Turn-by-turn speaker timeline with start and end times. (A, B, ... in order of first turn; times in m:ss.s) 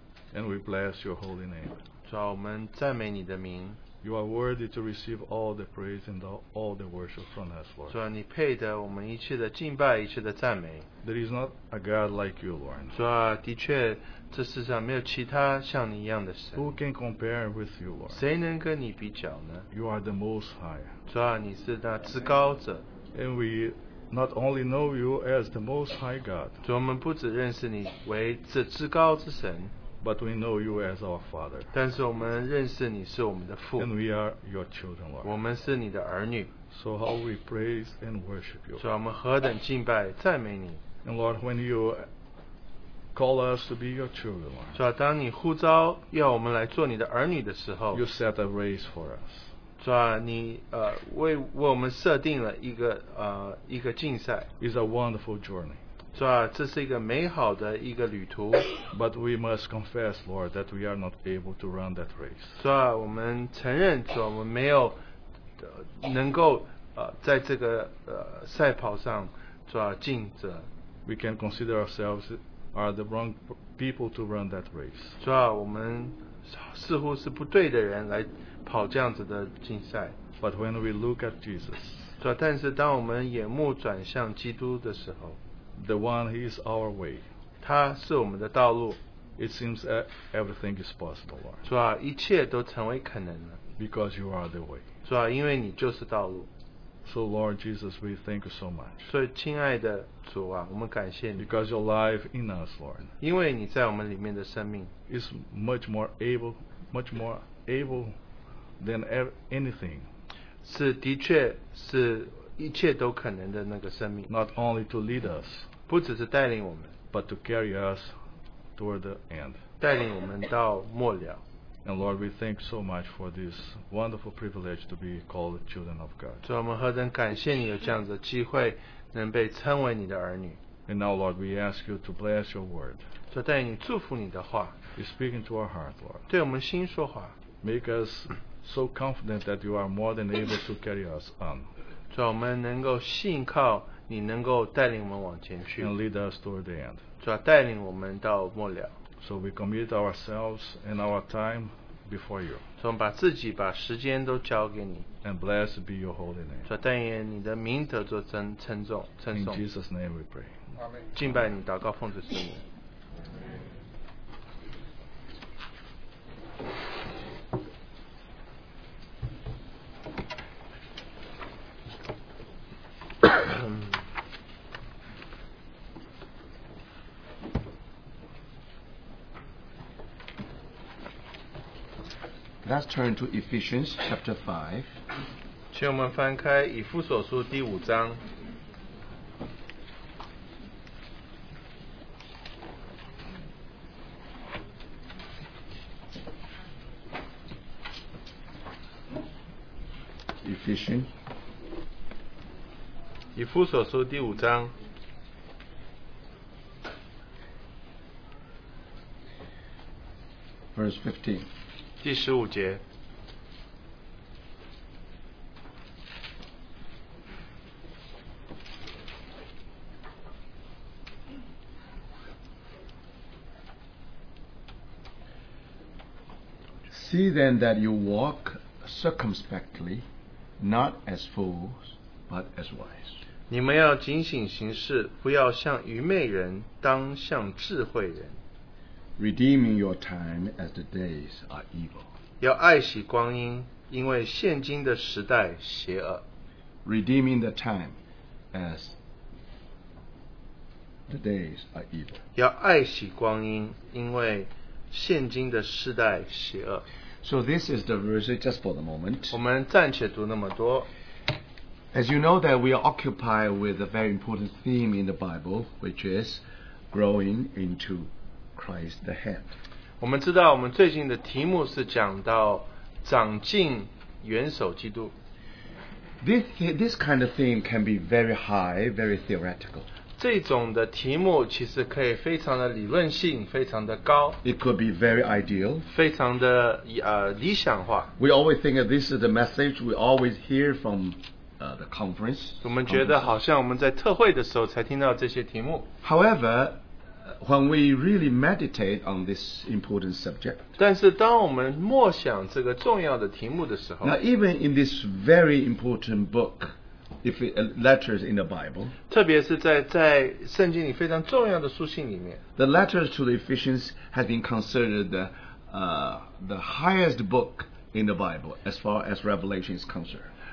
0:00.3-0:01.8 A
0:02.1-0:03.8 B
0:04.0-0:08.0 A
0:07.9-0:10.9 B
0:11.0-0:13.0 A
0:12.9-0:16.7 B
0:16.6-0:18.2 A
0:18.1-0:19.7 B
0:19.7-0:21.0 A
0:21.1-0:22.8 B
0:23.1-0:26.6 A
0:26.6-0:29.7 B
0:30.0-0:31.7 A
0:31.7-0:33.9 B
0:33.8-0:35.4 A
0:35.2-0:36.5 B
0:36.7-0:38.8 A
0:38.8-0:40.8 B
0:41.0-0:42.0 A
0:43.1-0:44.8 A
0:44.7-0:48.1 B
0:47.9-0:49.4 A
0:49.8-0:54.5 B
0:54.6-0:55.8 A
0:56.2-0:58.7 B
0:58.9-1:02.5 A
1:02.6-1:05.0 B
1:05.6-1:10.7 B
1:11.1-1:15.2 A
1:15.2-1:20.2 B
1:20.4-1:22.1 A
1:22.2-1:25.4 B
1:25.8-1:27.2 A
1:27.6-1:29.0 B
1:29.4-1:31.6 A
1:31.6-1:33.6 B
1:33.8-1:34.8 A
1:35.0-1:36.5 B
1:37.0-1:39.1 A
1:39.1-1:41.5 B
1:41.4-1:43.1 A
1:43.2-1:44.9 B
1:45.1-1:48.2 A
1:48.8-1:50.1 A
1:50.6-1:54.3 B
1:54.3-1:55.7 A
1:55.9-1:56.9 B
1:57.1-1:58.1 A
1:58.8-1:59.6 A
1:59.8-2:01.4 B
2:01.8-2:06.4 A
2:06.4-2:10.6 B
2:10.9-2:13.0 A
2:13.3-2:14.7 B
2:15.0-2:16.3 A
2:16.3-2:17.3 B
2:17.6-2:21.7 A
2:22.1-2:25.9 B
2:25.8-2:27.0 A
2:27.2-2:28.9 B
2:29.2-2:32.6 A
2:32.8-2:35.1 B
2:35.2-2:36.7 A
2:36.7-2:39.6 B
2:39.3-2:40.6 A
2:41.1-2:42.6 B
3:02.6-3:04.9 C
3:05.7-3:08.2 B
3:20.4-3:21.1 C
3:23.4-3:24.7 B
3:30.8-3:31.5 C
3:32.0-3:32.8 B
3:46.9-3:50.1 C
3:50.6-3:53.1 C
3:53.5-3:58.4 B
3:59.2-4:02.0 C
4:02.4-4:06.2 B
4:06.8-4:08.0 C
4:08.5-4:08.9 C
4:11.1-4:12.2 C
4:12.4-4:16.8 B
4:17.2-4:19.4 C
4:19.3-4:20.9 B
4:21.9-4:29.5 C
4:30.0-4:35.1 B
4:36.2-4:39.8 C
4:40.2-4:44.4 B
4:44.4-4:45.9 C
4:45.9-4:48.1 B
4:48.2-4:53.3 C
4:52.6-4:55.9 B
4:56.0-5:00.6 C
5:00.8-5:04.2 B
5:04.0-5:08.9 C
5:09.1-5:12.4 B
5:12.6-5:20.3 C